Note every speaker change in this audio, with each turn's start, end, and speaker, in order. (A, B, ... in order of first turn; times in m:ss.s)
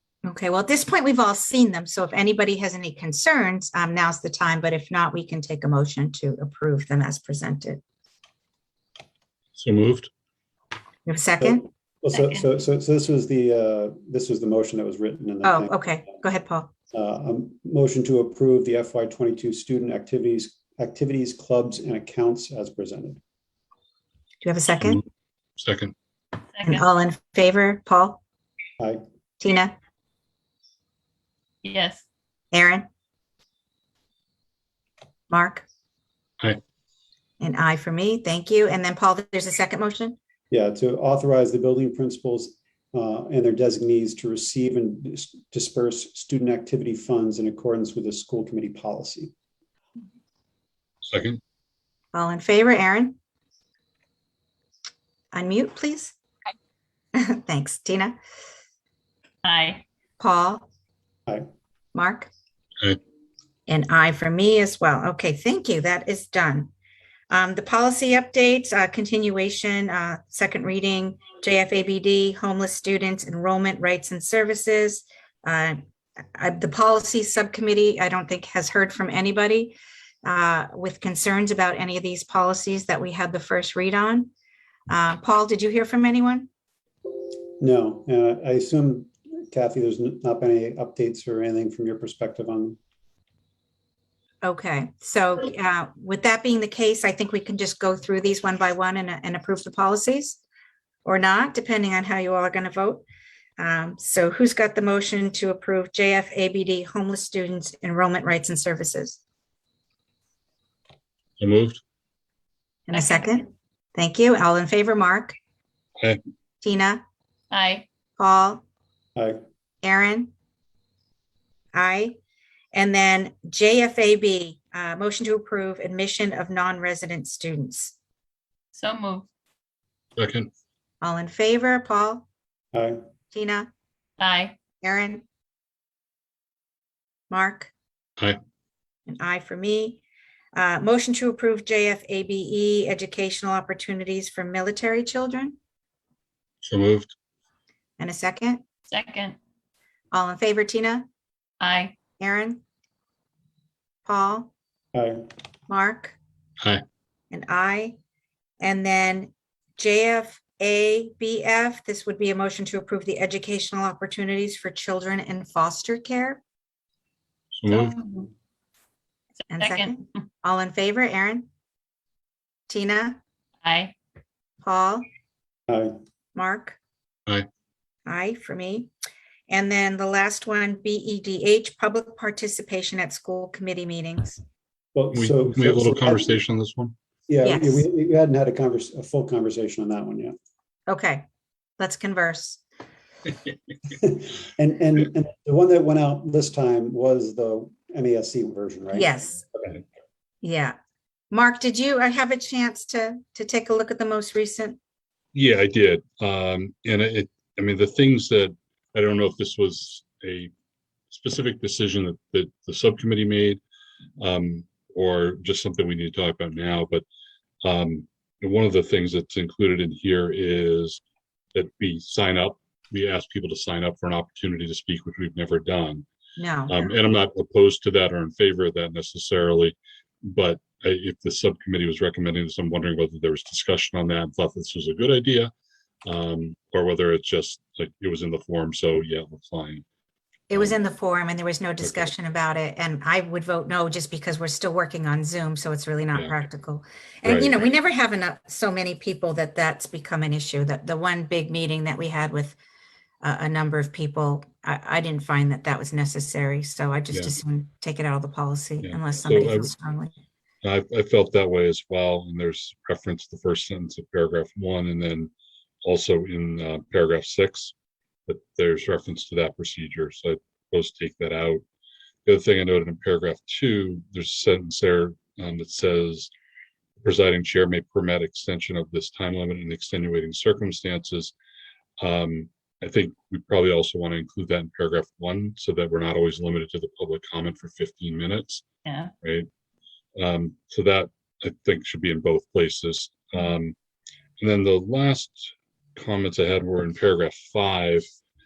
0:00.2-0:07.8 A
0:09.6-0:10.1 B
0:11.0-0:11.6 A
0:11.4-0:15.8 C
0:12.1-0:12.4 D
0:15.4-0:16.7 A
0:16.9-0:23.2 C
0:24.4-0:25.0 A
0:25.6-0:25.9 B
0:26.5-0:26.8 D
0:26.6-0:28.2 A
0:29.4-0:29.8 A
0:31.6-0:32.0 D
0:32.5-0:32.9 A
0:35.3-0:35.6 A
0:37.4-0:40.2 A
0:40.5-0:49.3 C
0:51.1-0:51.4 B
0:52.1-0:53.2 A
0:55.3-0:56.2 A
0:57.1-0:58.2 A
0:59.4-0:59.8 D
1:00.2-1:00.7 A
1:01.9-1:02.3 A
1:03.7-1:06.7 A
1:07.3-1:15.8 A
1:16.3-1:24.3 A
1:24.9-1:26.5 A
1:27.6-1:32.8 C
1:34.4-1:40.4 A
1:41.0-1:43.0 A
1:43.6-1:49.2 A
1:51.4-1:51.8 B
1:52.9-1:55.4 A
1:52.9-1:53.4 D
1:56.6-1:57.0 A
1:57.5-1:57.8 D
1:58.2-1:58.6 A
1:59.2-1:59.4 C
1:59.8-2:00.3 A
2:01.7-2:02.2 A
2:02.7-2:07.9 A
2:08.7-2:09.3 D
2:10.2-2:10.5 B
2:11.0-2:12.3 A
2:12.7-2:13.0 C
2:13.3-2:13.7 A
2:14.2-2:14.6 D
2:14.8-2:15.2 A
2:17.3-2:17.7 A
2:19.1-2:20.0 A
2:20.5-2:25.6 A
2:26.6-2:27.1 B
2:28.0-2:28.6 A
2:28.9-2:29.4 D
2:30.1-2:31.1 A
2:31.6-2:31.9 D
2:32.2-2:32.6 A
2:34.0-2:34.5 A
2:34.9-2:35.2 C
2:35.7-2:36.2 A
2:37.3-2:38.0 A
2:38.6-2:46.4 A
2:47.6-2:48.0 B
2:47.7-2:48.3 A
2:49.4-2:49.9 D
2:49.5-2:51.5 A
2:52.7-2:53.2 A
2:53.6-2:53.9 D
2:54.6-2:55.1 A
2:55.7-2:55.9 C
2:56.3-2:56.8 A
2:58.0-2:58.9 A
2:59.5-3:04.4 A
3:04.9-3:06.3 C
3:05.1-3:06.9 B
3:07.3-3:10.3 C
3:07.4-3:07.9 A
3:10.9-3:11.2 A
3:11.8-3:12.6 A
3:13.9-3:19.2 C
3:18.9-3:19.4 A
3:20.4-3:20.8 A
3:21.3-3:24.8 A
3:25.3-3:30.5 B
3:31.1-3:33.6 B
3:34.2-3:37.0 B
3:37.6-3:41.0 B
3:41.5-3:46.0 B
3:46.4-3:46.8 A
3:46.7-3:55.5 B
3:56.0-3:59.8 B
4:00.5-4:12.6 A
4:01.8-4:02.1 B
4:07.2-4:07.5 B
4:13.2-4:20.1 A
4:18.8-4:19.7 B
4:20.6-4:25.3 B
4:25.8-4:27.7 B
4:28.3-4:31.6 B
4:32.2-4:36.3 B
4:37.0-4:41.3 B
4:42.0-4:48.6 B
4:48.8-4:49.1 D
4:49.2-4:49.5 B
4:50.2-4:53.7 B
4:54.4-4:58.1 B